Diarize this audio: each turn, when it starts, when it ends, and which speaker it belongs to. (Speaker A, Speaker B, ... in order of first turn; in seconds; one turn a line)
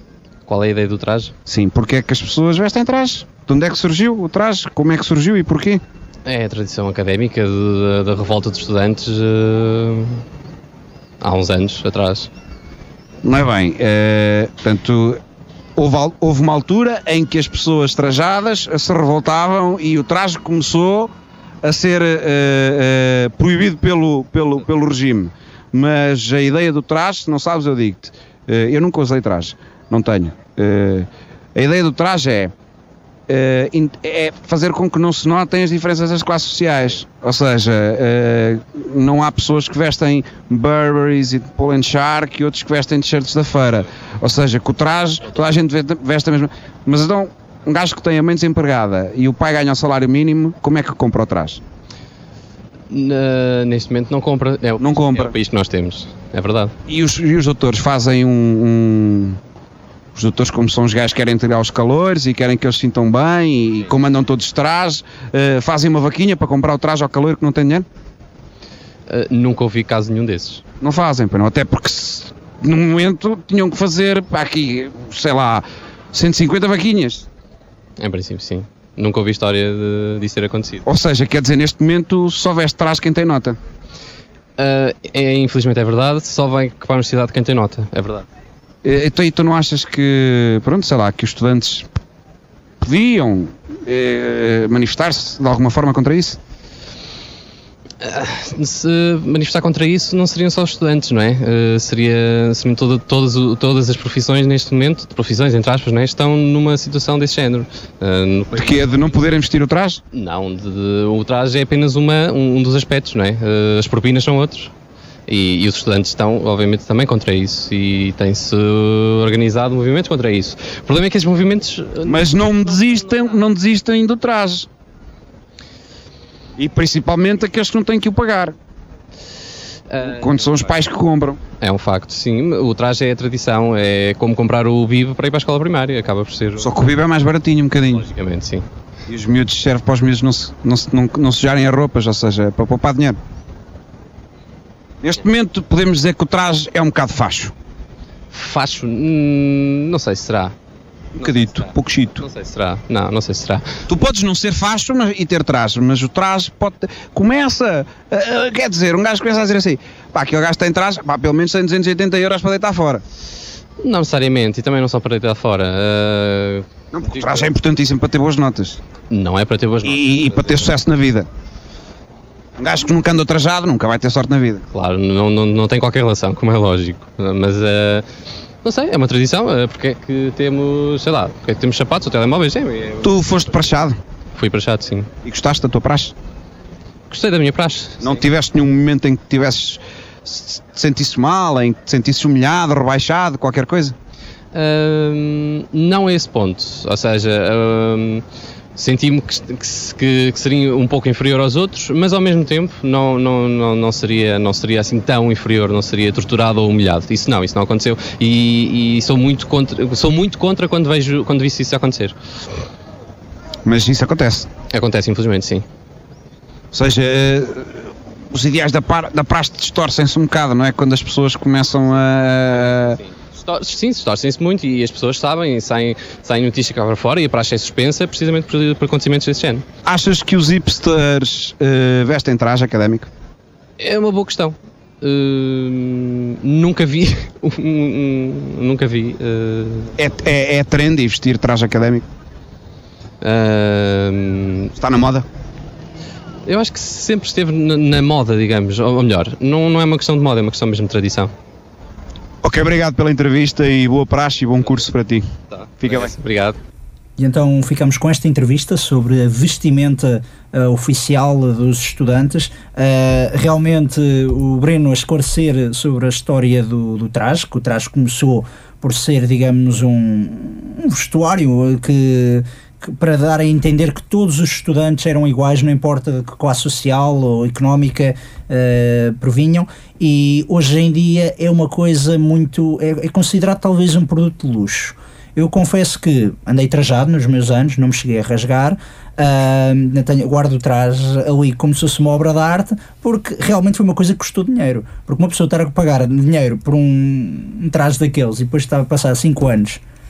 Speaker A: 0.5-1.3
Speaker B: 1.5-5.8
Speaker A: 6.2-10.2
Speaker A: 11.2-12.3
Speaker B: 13.2-15.2
Speaker B: 15.8-21.1
Speaker B: 21.6-32.5
Speaker B: 33.3-51.6
Speaker A: 52.9-56.7
Speaker B: 54.8-55.3
Speaker B: 56.9-59.4
Speaker B: 60.1-67.8
Speaker A: 69.1-70.6
Speaker B: 70.8-77.2
Speaker A: 78.0-80.8
Speaker B: 80.8-83.6
Speaker A: 84.6-88.2
Speaker B: 88.8-91.8
Speaker B: 92.8-96.4
Speaker A: 98.0-109.2
Speaker B: 108.5-110.0
Speaker A: 110.1-114.7
Speaker A: 115.3-123.3
Speaker B: 122.0-124.7
Speaker B: 126.6-128.5
Speaker A: 129.9-130.8
Speaker B: 130.0-131.4
Speaker A: 131.6-136.7
Speaker B: 136.6-138.1
Speaker A: 138.0-138.6
Speaker B: 139.1-143.2
Speaker B: 145.0-147.5
Speaker A: 148.3-150.5
Speaker B: 151.2-152.2
Speaker A: 151.2-153.8
Speaker B: 153.9-163.0
Speaker A: 163.8-167.5
Speaker B: 166.9-168.8
Speaker A: 169.1-170.7
Speaker B: 169.8-171.3
Speaker B: 172.6-174.6
Speaker A: 174.7-178.1
Speaker A: 178.6-183.1
Speaker B: 183.0-184.0
Speaker A: 184.3-185.1
Speaker B: 185.2-186.1
Speaker A: 187.1-188.2
Speaker B: 188.0-193.9
Speaker A: 194.5-198.2
Speaker A: 198.8-212.2
Speaker B: 213.6-214.5
Speaker A: 214.7-215.6
Speaker B: 216.7-223.0
Speaker A: 222.5-229.7
Speaker B: 229.8-233.1
Speaker A: 233.8-239.9
Speaker B: 240.0-242.0
Speaker A: 243.2-244.7
Speaker B: 244.8-245.2
Speaker A: 246.4-251.3
Speaker B: 252.4-255.2
Speaker A: 255.5-256.6
Speaker B: 255.8-256.1
Speaker C: 257.2-299.8